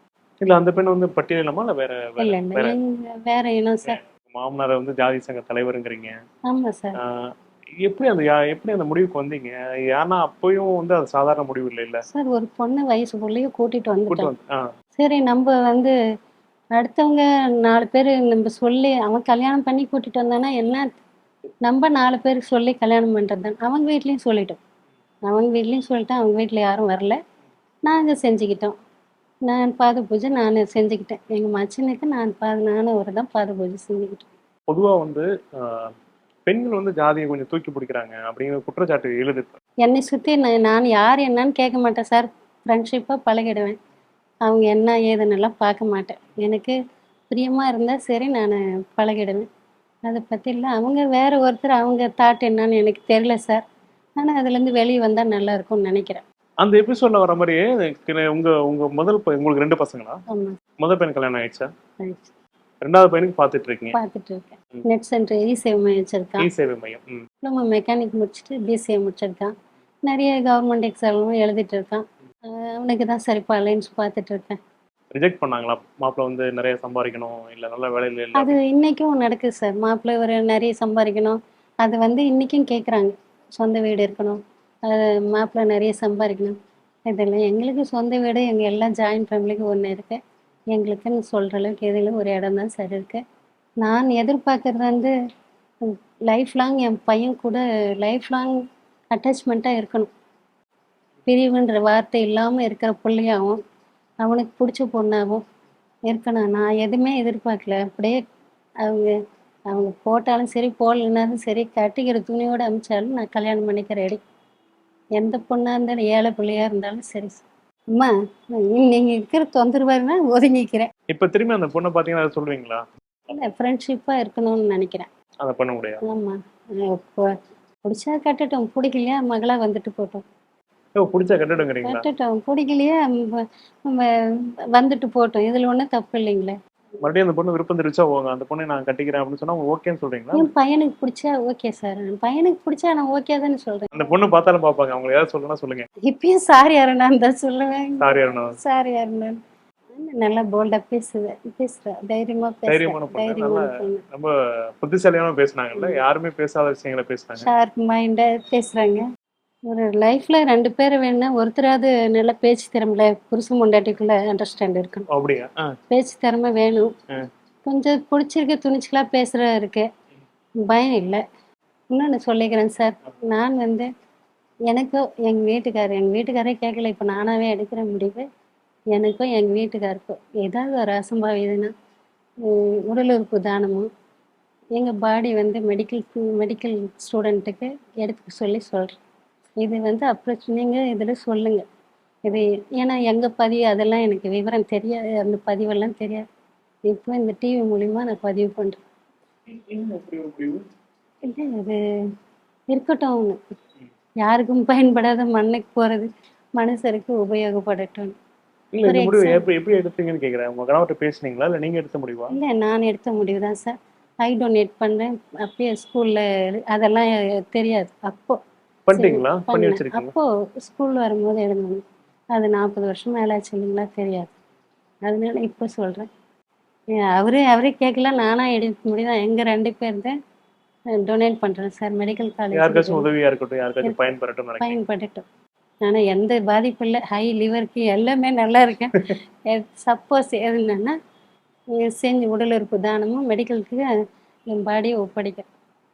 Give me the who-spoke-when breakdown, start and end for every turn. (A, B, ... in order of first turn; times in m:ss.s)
0:00.4-0:02.7 A
0:02.2-0:04.0 B
0:04.2-0:06.2 A
0:06.5-0:07.0 B
0:07.0-0:12.0 A
0:12.1-0:14.3 B
0:14.1-0:14.6 A
0:15.0-0:15.9 B
0:16.8-0:20.9 B
0:21.6-0:24.6 B
0:25.2-0:27.2 B
0:27.8-0:28.7 B
0:29.5-0:34.3 B
0:34.7-0:35.9 A
0:36.5-0:39.6 A
0:39.8-0:43.8 B
0:44.4-0:46.7 B
0:47.3-0:49.4 B
0:50.0-0:53.6 B
0:54.2-0:56.2 B
0:56.6-1:00.2 A
1:00.3-1:00.6 B
1:00.8-1:01.7 A
1:02.0-1:02.3 B
1:02.8-1:03.9 A
1:03.9-1:06.5 B
1:06.4-1:07.2 A
1:07.4-1:09.5 B
1:10.0-1:14.6 B
1:15.1-1:18.3 A
1:18.3-1:26.5 B
1:27.1-1:30.2 B
1:30.7-1:33.2 B
1:33.8-1:35.1 B
1:35.8-1:38.6 B
1:39.1-1:40.1 B
1:41.3-1:43.6 B
1:44.2-1:45.4 B
1:46.1-1:48.2 B
1:48.8-1:49.1 B
1:49.7-1:54.2 B
1:55.2-2:00.9 B
2:01.1-2:02.8 A
2:03.3-2:05.1 B
2:05.4-2:06.0 A
2:06.0-2:07.3 B
2:07.8-2:10.2 B
2:11.0-2:12.0 A
2:11.8-2:16.6 B
2:17.1-2:20.3 A
2:20.3-2:23.9 B
2:24.0-2:25.8 A
2:26.0-2:29.4 B
2:28.0-2:28.5 A
2:29.9-2:34.0 B
2:32.7-2:37.4 A
2:35.8-2:36.0 B
2:37.4-2:39.0 B
2:39.7-2:45.0 B
2:45.1-2:45.5 A
2:45.9-2:46.9 B
2:47.6-2:49.9 B
2:50.7-2:51.2 B
2:51.9-2:53.9 B
2:54.7-2:58.2 B
2:58.9-3:01.7 B
3:02.4-3:03.9 B
3:04.8-3:09.0 B
3:09.6-3:11.6 B
3:12.2-3:16.2 B
3:16.9-3:18.8 B
3:19.5-3:20.6 A
3:21.2-3:21.8 B
3:22.7-3:23.4 B
3:24.2-3:28.1 B
3:28.7-3:32.3 A
3:28.8-3:29.4 B
3:32.3-3:38.4 B
3:38.9-3:40.1 A
3:38.9-3:41.8 B
3:42.3-3:44.3 B
3:45.0-3:46.1 B
3:47.0-3:50.1 B
3:51.0-3:53.1 B
3:52.6-3:54.7 A
3:53.8-3:55.2 B
3:55.8-4:00.9 B
4:01.8-4:03.9 B
4:04.5-4:05.4 B